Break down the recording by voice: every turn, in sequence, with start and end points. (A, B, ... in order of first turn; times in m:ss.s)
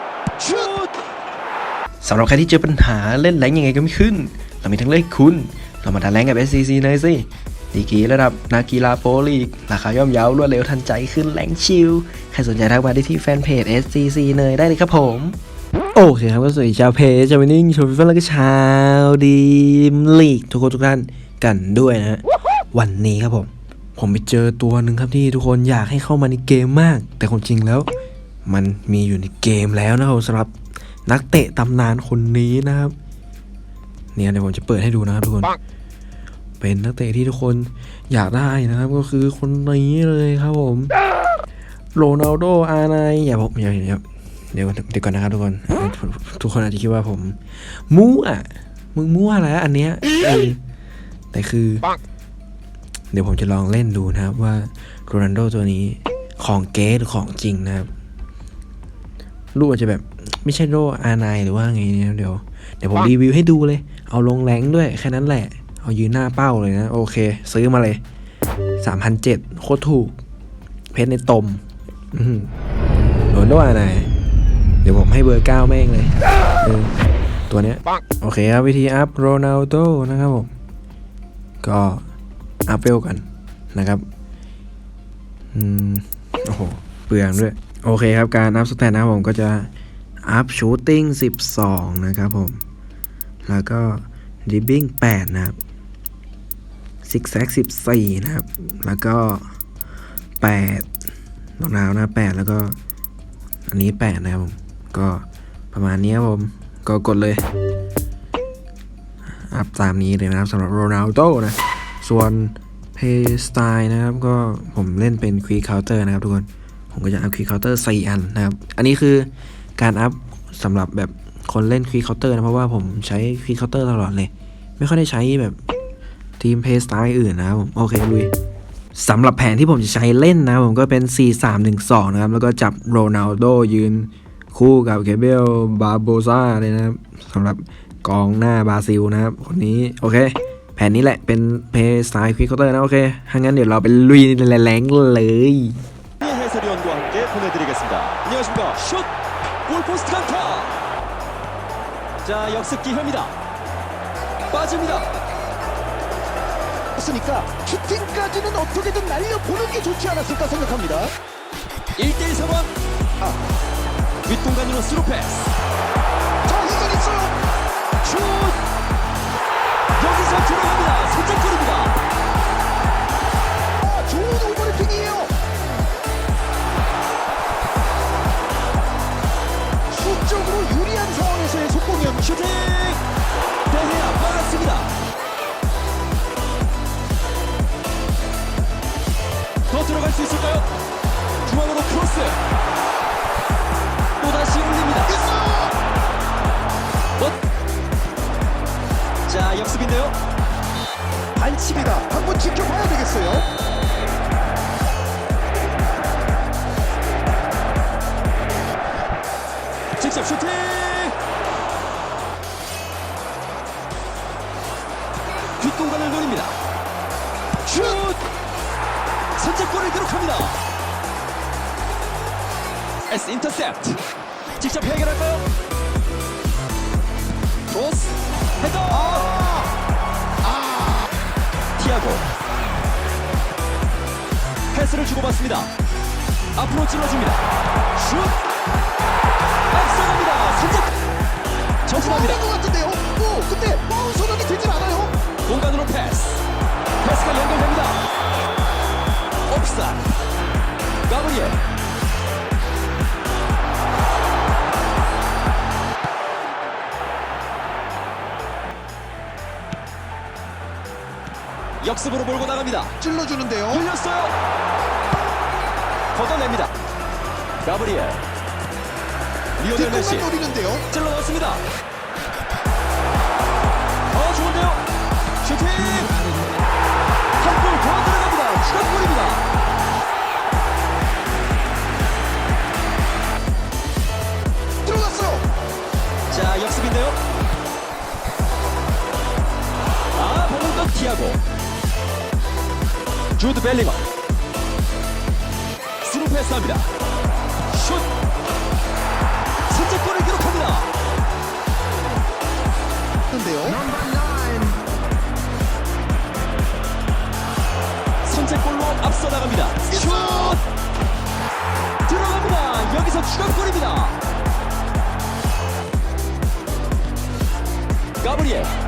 0:00.4-0:00.9 A
0:02.0-0:15.4 B
0:15.9-0:27.9 B
0:28.4-0:30.5 B
0:31.0-0:32.9 B
0:34.1-0:35.6 B
0:36.6-0:40.9 B
0:41.9-0:50.6 B
0:51.3-0:51.9 B
0:53.1-0:57.9 B
0:59.5-1:08.0 B
1:08.8-1:10.2 B
1:10.9-1:12.5 B
1:13.3-1:14.1 B
1:14.8-1:16.9 B
1:17.5-1:20.5 B
1:21.6-1:22.0 B
1:22.6-1:24.0 B
1:25.5-1:29.7 B
1:30.2-1:32.6 B
1:33.4-1:35.6 B
1:37.0-1:39.4 B
1:40.4-1:40.9 B
1:41.6-1:42.7 B
1:43.7-1:47.4 B
1:49.5-2:05.6 B
2:06.4-2:08.3 B
2:08.9-2:25.8 B
2:26.2-2:29.1 A
2:29.6-2:30.7 A
2:32.2-2:33.3 A
2:34.5-2:35.1 A
2:37.0-2:41.1 C
2:41.9-2:42.7 A
2:44.2-2:45.5 A
2:46.4-2:47.3 C
2:48.0-2:48.6 A
2:50.0-2:52.0 A
2:53.8-2:55.3 C
2:59.9-3:02.3 C
3:02.0-3:03.0 A
3:03.7-3:04.9 A
3:09.7-3:10.7 A
3:11.4-3:12.4 A
3:14.2-3:15.2 A
3:15.0-3:15.7 C
3:19.2-3:20.2 A
3:21.4-3:23.5 C
3:30.0-3:31.1 A
3:35.6-3:36.6 A
3:37.6-3:38.2 A
3:39.4-3:40.6 A
3:43.1-3:44.0 A
3:44.5-3:45.4 A
3:47.7-3:49.3 A
3:48.9-3:49.7 C
3:50.4-3:51.1 C
3:51.8-3:52.2 A
3:54.7-3:55.7 A
3:56.5-3:57.4 A
3:58.0-3:58.3 A
3:59.7-4:00.9 A
4:01.8-4:02.4 A
4:01.9-4:05.1 C
4:05.4-4:06.4 A
4:07.0-4:08.0 A
4:09.5-4:10.1 A
4:11.1-4:11.6 A
4:21.8-4:22.9 A
4:23.0-4:23.9 C
4:23.7-4:24.4 A
4:26.1-4:26.7 A
4:27.6-4:28.2 A
4:29.6-4:30.3 A
4:29.7-4:30.8 C
4:30.9-4:31.6 A
4:34.1-4:34.8 A
4:35.4-4:36.2 A
4:37.4-4:39.4 A
4:44.8-4:45.4 C
4:46.3-4:47.2 A
4:50.1-4:51.4 A
4:53.4-4:54.0 A
4:56.0-4:56.9 A
4:57.7-4:58.0 A
4:59.7-5:00.9 A
5:03.3-5:04.7 C
5:08.2-5:10.6 A
5:09.9-5:10.6 C
5:12.0-5:14.2 A
5:18.2-5:18.7 A